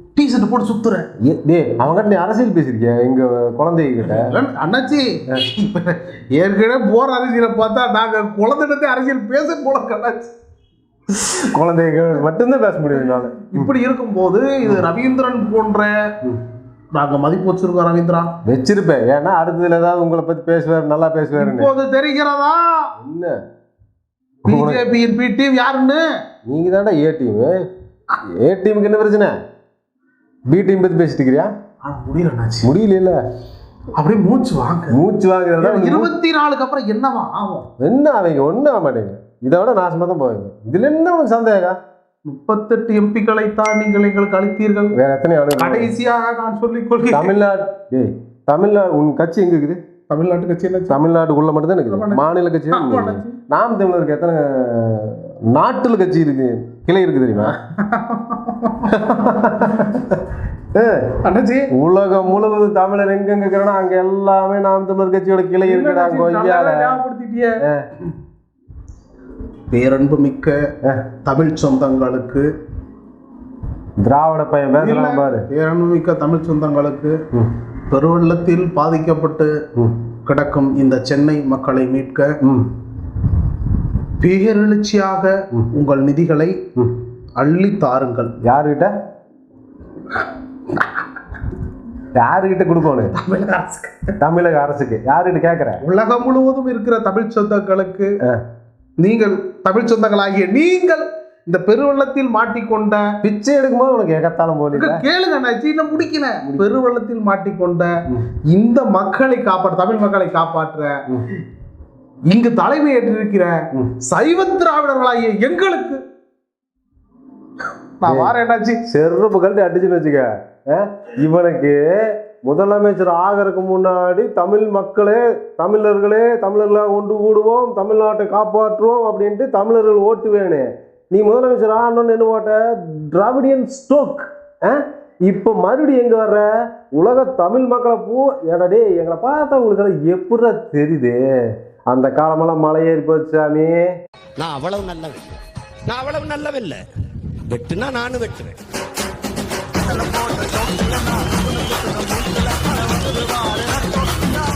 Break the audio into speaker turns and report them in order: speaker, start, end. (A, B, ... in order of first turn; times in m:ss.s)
0:00.2-0:01.1 A
0:01.2-0:04.4 B
0:04.0-0:10.3 A
0:11.3-0:13.7 B
0:13.0-0:15.9 A
0:16.9-0:18.3 A
0:18.4-0:21.7 B
0:21.4-0:22.9 A
0:23.0-0:23.4 B
0:24.4-0:26.0 A
0:24.5-0:24.8 B
0:26.5-0:27.6 B
0:28.4-0:29.3 B
0:30.5-0:31.5 B
0:31.8-0:32.7 A
0:32.6-0:33.2 B
0:34.0-0:35.0 A
0:34.9-0:36.1 B
0:35.6-0:37.7 A
0:37.8-0:41.8 B
0:42.3-0:45.0 A
0:45.0-0:45.9 B
0:45.6-0:47.3 A
0:47.1-0:49.8 B
0:50.1-0:51.0 A
0:50.9-0:57.6 B
0:51.9-0:53.4 A
0:57.4-0:59.2 A
0:58.9-1:01.2 B
1:01.2-1:01.7 A
1:01.8-1:07.0 B
1:05.6-1:07.6 A
1:09.7-1:10.6 A
1:11.2-1:12.5 A
1:14.0-1:15.5 B
1:14.8-1:17.2 A
1:17.9-1:19.6 A
1:20.3-1:22.4 A
1:22.4-1:22.7 B
1:24.2-1:26.6 A
1:27.4-1:28.3 A
1:28.4-1:29.0 B
1:30.7-1:31.0 A
1:32.2-1:33.2 B
1:33.1-1:34.1 A
1:34.2-1:35.8 B
1:35.8-1:38.2 A
1:39.0-1:43.2 A
1:43.2-1:45.0 B
1:44.7-1:48.0 A
1:46.4-1:46.7 B
1:48.5-1:51.0 A
1:52.3-1:56.0 A
1:58.0-1:58.8 A
1:58.1-1:58.3 B
1:58.9-2:21.3 B
2:21.9-2:23.9 B
2:24.4-2:25.3 C
2:25.9-2:26.8 C
2:27.5-2:28.6 C
2:29.9-2:34.3 A